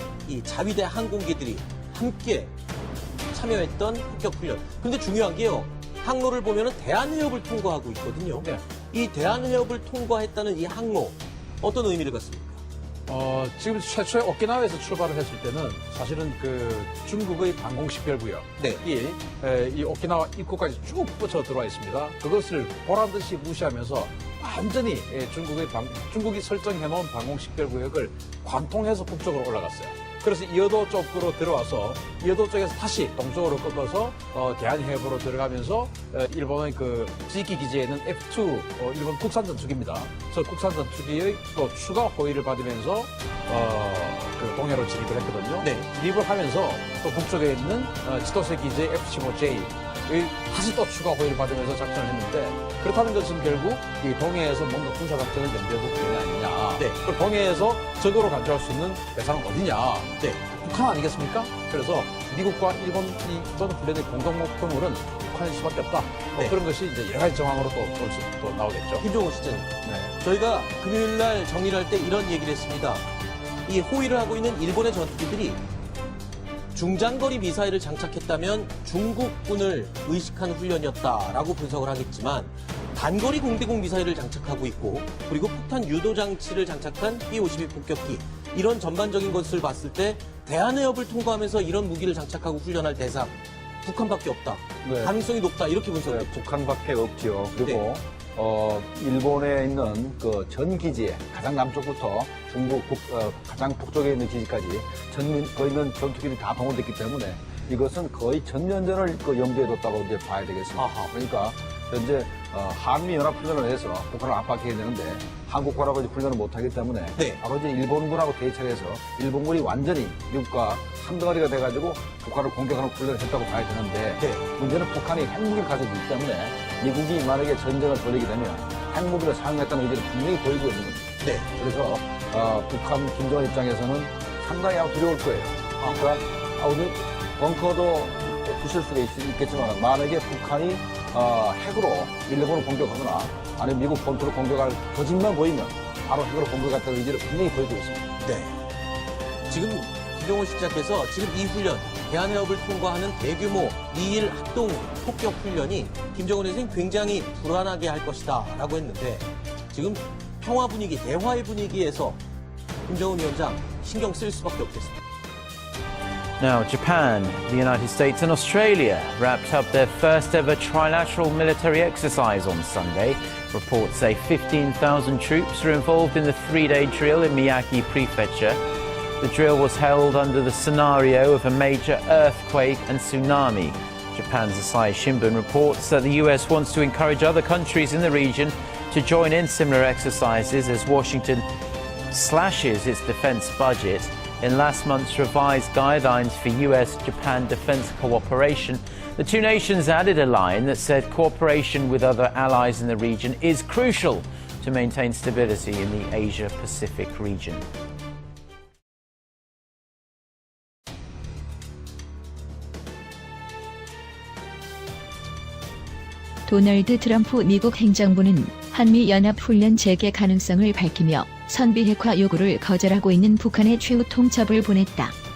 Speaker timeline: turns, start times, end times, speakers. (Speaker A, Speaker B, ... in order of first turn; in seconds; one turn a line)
Speaker A: 0.2-2.5
Speaker A: 3.3-12.6
Speaker B: 13.1-69.0
Speaker A: 69.0-73.1
Speaker B: 69.8-70.1
Speaker A: 73.7-75.6
Speaker A: 76.7-96.4
Speaker C: 94.8-95.1
Speaker C: 96.0-148.1
Speaker A: 110.8-111.1
Speaker A: 124.2-124.4
Speaker A: 131.2-131.5
Speaker A: 148.2-148.6
Speaker A: 149.5-162.2
Speaker A: 162.8-165.0
Speaker D: 166.4-178.6
Speaker D: 179.2-191.4
Speaker D: 192.1-207.6
Speaker E: 216.4-225.1